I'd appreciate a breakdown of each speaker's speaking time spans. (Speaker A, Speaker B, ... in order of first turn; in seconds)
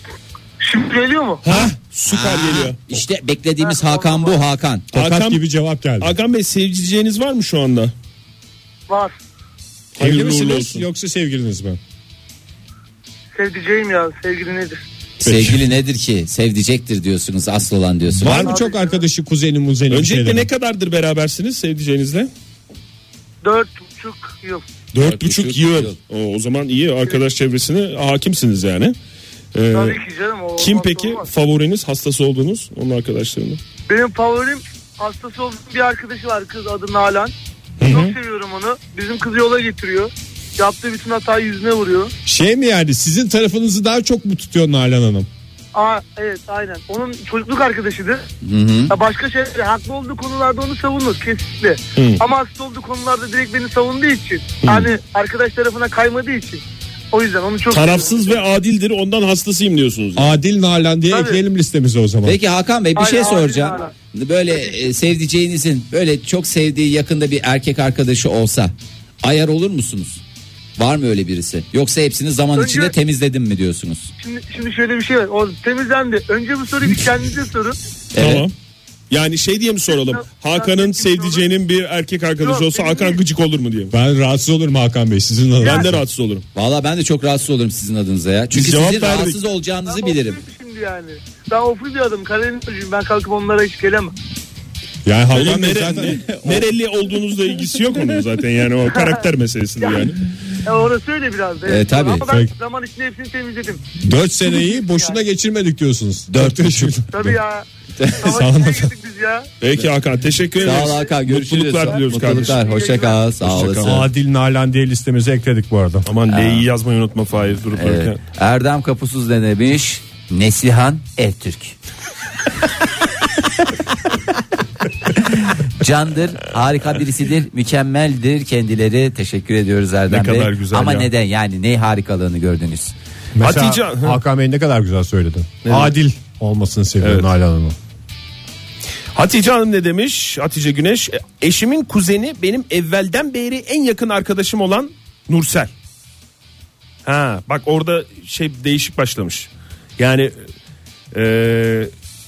Speaker A: 0.6-1.4, 3.6-4.4, 8.9-9.1, 13.3-14.8, 18.4-19.0, 23.4-24.6, 29.7-31.3, 33.9-42.1, 45.7-48.2, 48.9-58.3, 61.1-61.4, 63.0-63.9, 72.5-72.9, 74.2-77.8, 79.9-81.5, 82.4-83.2, 85.6-85.9, 89.9-94.1, 99.8-100.1, 100.6-103.8, 104.6-105.2, 107.1-107.7, 108.2-109.5, 111.8-113.2
Speaker B: 1.4-2.8, 4.9-5.4, 6.0-7.9, 9.9-10.8, 18.2-18.5, 19.9-22.3, 24.9-28.9, 29.5-30.0, 30.6-33.6, 37.8-38.1, 51.9-52.2, 54.6-54.9, 57.7-60.3, 78.2-78.5, 79.1-83.9, 85.6-86.4, 88.5-89.4, 95.3-100.2, 109.6-112.6, 113.4-114.0, 116.0-118.2, 130.1-131.1, 133.4-134.2, 135.6-135.9, 137.0-137.3, 139.1-145.7, 147.0-150.3, 151.1-151.9
Speaker C: 2.0-4.9, 15.2-18.5, 25.0-26.0, 48.4-48.9, 62.2-70.2, 70.8-74.1, 78.1-78.5, 86.5-90.4, 96.1-96.7, 101.6-102.3, 106.3-106.9, 108.0-108.4, 110.6-114.1, 116.3-116.7, 117.7-121.8, 125.1-132.9
Speaker D: 4.9-6.1, 10.0-11.8, 15.2-15.6, 18.2-20.5, 42.2-45.3, 60.1-62.4, 83.9-86.0, 95.0-96.2, 102.3-102.5, 104.0-107.4, 108.3-108.9, 113.8-116.1, 133.4-137.8